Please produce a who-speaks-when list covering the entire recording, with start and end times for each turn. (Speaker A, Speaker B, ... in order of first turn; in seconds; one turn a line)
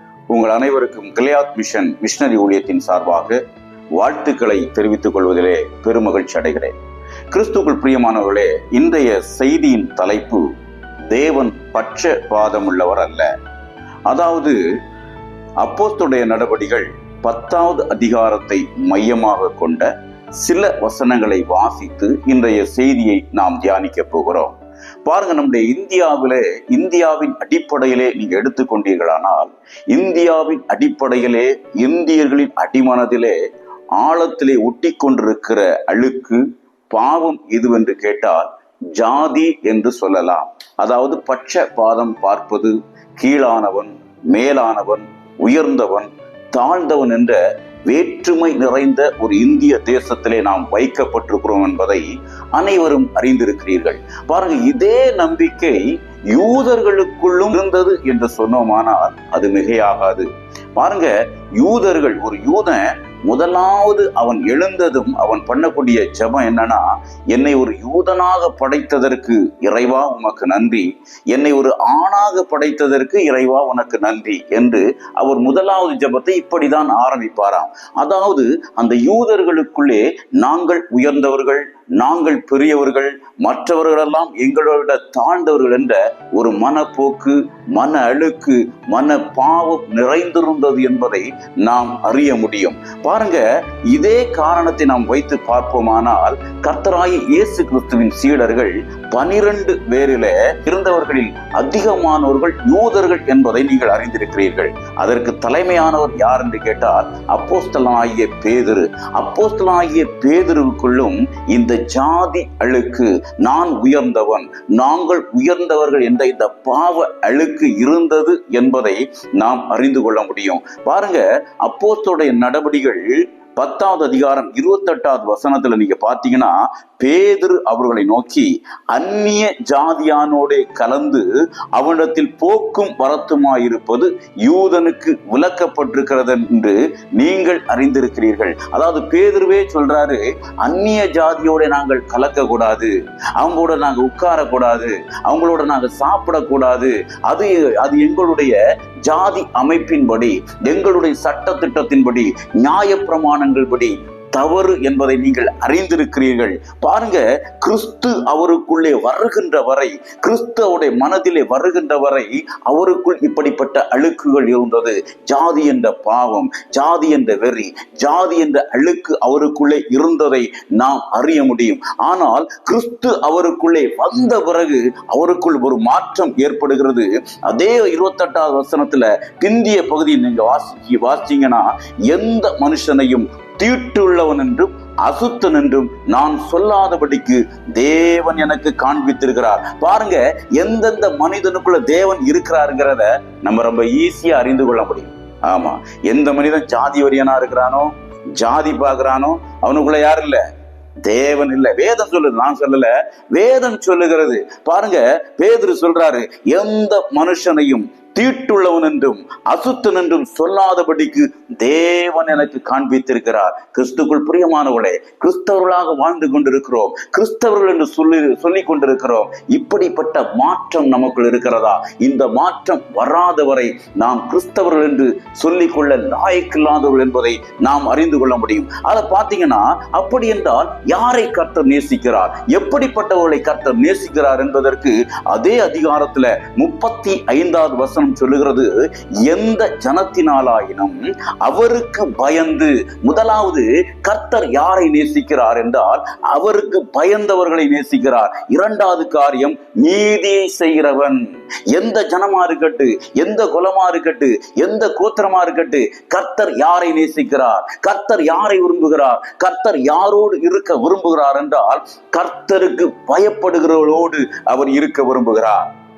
Speaker A: 0.3-3.4
Speaker A: 4.0-6.7
Speaker A: 7.3-10.5
Speaker A: 11.1-13.3
Speaker A: 14.1-14.6
Speaker A: 15.6-33.4
Speaker A: 34.0-200.4
Speaker A: 201.1-265.6